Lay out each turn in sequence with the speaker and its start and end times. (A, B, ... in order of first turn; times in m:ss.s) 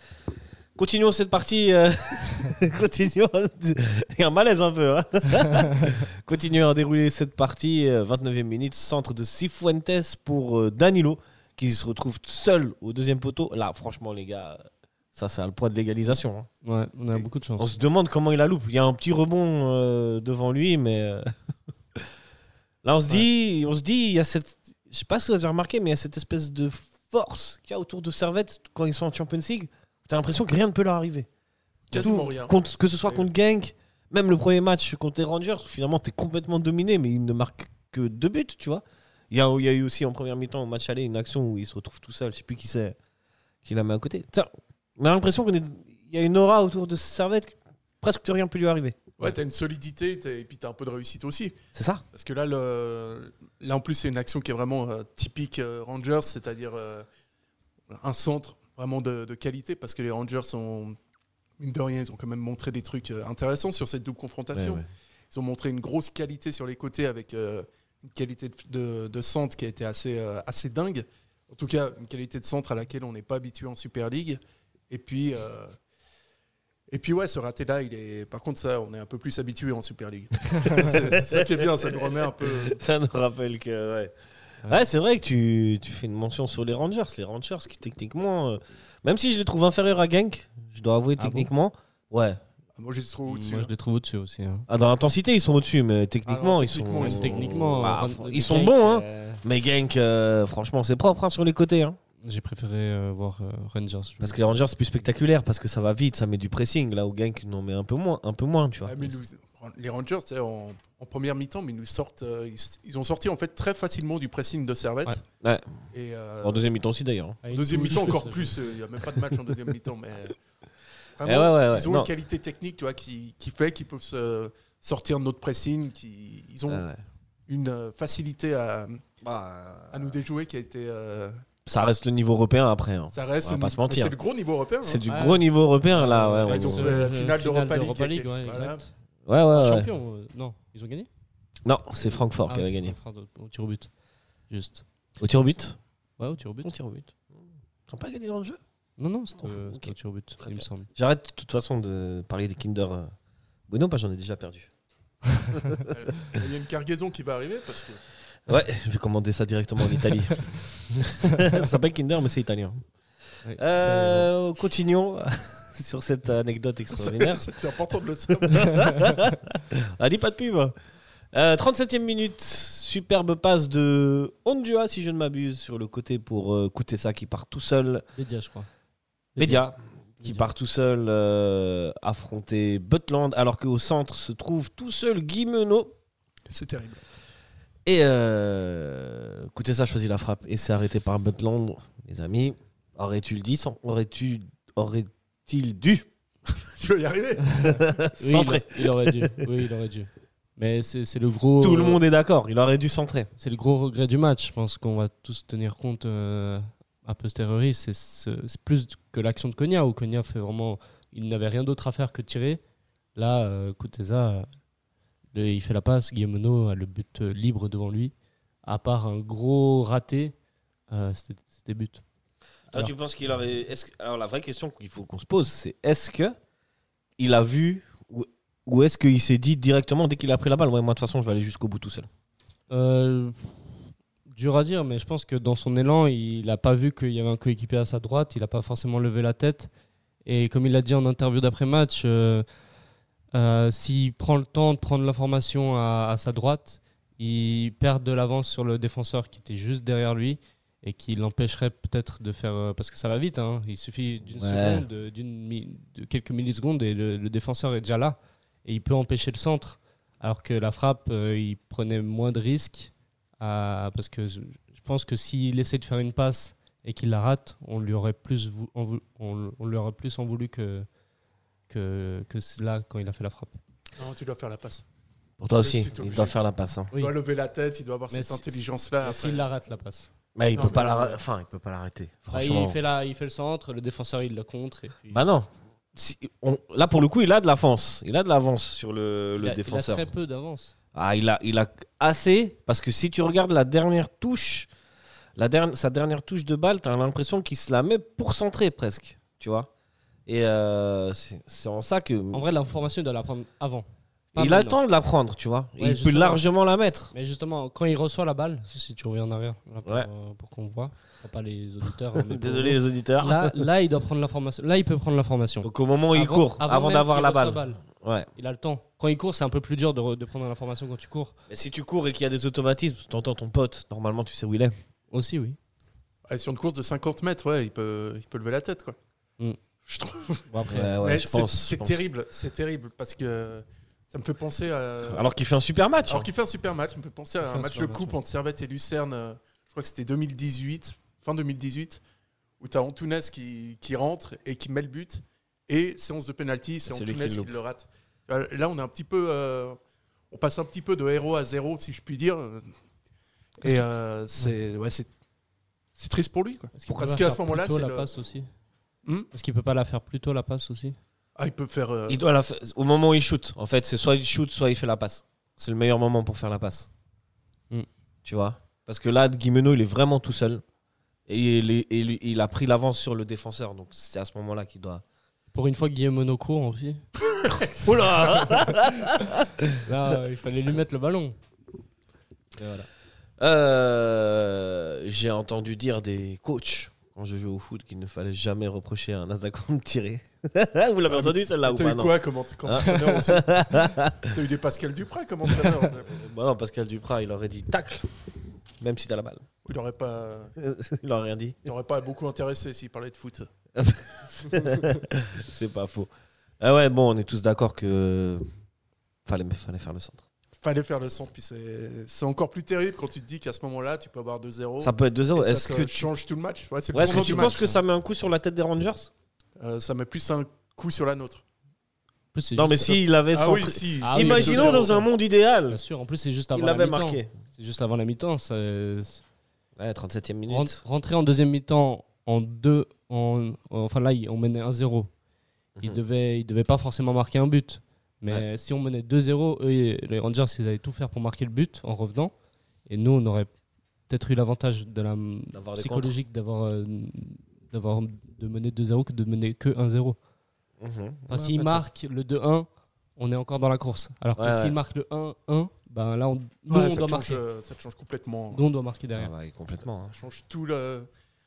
0:00.8-0:16.5 A
0:16.6-0:17.7 B
0:17.6-0:21.3 A
0:22.8-0:31.3 A
0:31.9-0:33.3 C
0:31.9-0:43.0 A
0:43.6-0:49.0 A
0:49.2-0:51.6 C
0:51.7-0:52.0 A
0:52.1-0:57.1 C
0:57.9-1:01.0 C
1:01.6-1:15.8 C
1:04.5-1:04.9 A
1:16.9-1:22.8 C
1:20.6-1:24.1 A
1:24.7-1:32.4 A
1:31.2-1:31.5 B
1:32.8-1:33.7 C
1:33.3-1:34.7 B
1:34.7-1:42.0 A
1:36.2-1:37.7 C
1:37.0-1:39.4 B
1:42.2-1:44.6 B
1:44.2-1:49.1 A
1:48.8-1:55.2 C
1:55.4-1:55.8 A
1:55.9-1:56.6 C
1:56.4-1:57.4 A
1:57.4-1:58.6 B
1:57.5-2:00.4 C
2:01.2-2:06.8 C
2:01.2-2:02.1 A
2:06.7-2:07.0 A
2:07.5-2:09.0 C
2:09.2-2:10.2 A
2:09.9-2:11.4 C
2:11.7-2:14.1 A
2:13.1-2:15.0 C
2:14.8-2:17.0 A
2:15.1-2:18.9 B
2:16.4-2:18.8 C
2:19.3-2:19.9 A
2:19.5-2:21.1 B
2:21.6-2:22.9 A
2:22.5-2:23.9 B
2:24.5-2:24.8 B
2:25.2-2:25.8 A
2:26.2-2:26.7 B
2:26.6-2:28.6 A
2:29.0-2:30.9 B
2:29.4-2:33.1 A
2:33.7-2:34.7 A
2:35.5-2:35.9 A
2:35.9-2:38.0 C
2:38.5-2:42.8 A
2:43.4-2:44.3 B
2:43.6-2:47.5 A
2:46.9-2:48.9 C
2:48.4-2:50.7 A
2:51.3-2:58.0 A
2:58.2-2:58.7 B
2:59.4-2:59.7 B
2:59.4-3:05.9 A
3:00.2-3:00.5 B
3:06.5-3:07.0 C
3:07.9-3:16.1 A
3:16.5-3:17.8 C
3:17.5-3:22.0 B
3:17.6-3:19.4 A
3:21.6-3:23.3 A
3:23.4-3:32.6 B
3:33.2-3:34.5 B
3:35.3-3:40.3 B
3:40.9-3:42.0 B
3:42.7-3:46.4 A
3:47.2-3:52.1 A
3:52.7-3:53.6 B
3:54.3-3:59.7 B
4:00.2-4:02.4 B
4:03.3-4:30.9 B
4:14.2-4:14.8 A
4:31.7-4:33.6 B
4:34.0-4:34.8 C
4:35.4-4:36.9 A
4:35.6-4:36.4 C
4:37.0-4:39.5 C
4:38.1-4:40.9 B
4:40.4-4:42.8 A
4:40.6-4:41.2 C
4:42.3-4:45.2 B
4:45.1-4:50.1 A
4:49.4-4:50.7 B
4:50.9-4:54.7 A
4:55.4-4:59.7 A
5:00.3-5:02.4 A
5:02.3-5:04.8 B
5:04.4-5:07.1 A
5:05.8-5:06.4 B
5:07.1-5:17.8 B
5:12.2-5:13.6 A
5:15.6-5:18.3 A
5:18.4-5:21.4 B
5:21.5-5:24.7 A
5:25.1-5:25.6 B
5:26.3-5:29.0 C
5:29.9-5:35.2 C
5:30.5-5:31.0 B
5:30.7-5:32.0 A
5:35.0-5:36.3 A
5:36.1-5:42.0 C
5:37.4-5:38.1 B
5:42.6-5:49.8 C
5:46.9-5:47.5 A
5:50.3-5:52.7 C
5:53.6-5:55.1 C
5:56.0-5:58.1 C
5:56.9-5:58.5 B
5:59.0-5:59.3 C
5:59.3-6:01.0 B
6:01.4-6:02.2 C
6:02.1-6:06.9 A
6:08.2-6:10.6 A
6:11.3-6:15.0 A
6:15.5-6:17.0 B
6:17.2-6:18.7 C
6:17.8-6:19.8 A
6:19.8-6:21.4 B
6:22.6-6:22.9 B
6:23.4-6:34.3 A
6:31.1-6:33.6 C
6:34.2-6:36.2 C
6:36.0-6:38.2 A
6:38.8-6:39.4 A
6:39.6-6:40.5 C
6:40.6-6:41.6 A
6:41.6-6:43.5 C
6:43.8-6:48.5 A
6:49.2-6:50.2 A
6:50.6-6:57.6 C
6:54.8-6:56.1 A
6:56.9-6:59.1 A
6:57.0-6:57.8 B
6:59.6-7:01.4 C
7:02.3-7:03.0 B
7:02.6-7:05.8 A
7:03.3-7:05.0 C
7:04.0-7:05.1 B
7:05.7-7:09.2 B
7:06.5-7:07.3 A
7:09.8-7:10.8 A
7:10.5-7:15.1 B
7:15.8-7:22.3 B
7:22.9-7:23.5 B
7:24.1-7:30.2 B
7:25.5-7:26.1 A
7:30.8-7:31.8 A
7:31.3-7:37.4 B
7:34.4-7:34.8 A
7:36.7-7:38.7 C
7:38.5-7:39.3 B
7:39.1-7:40.1 A
7:40.1-7:41.1 C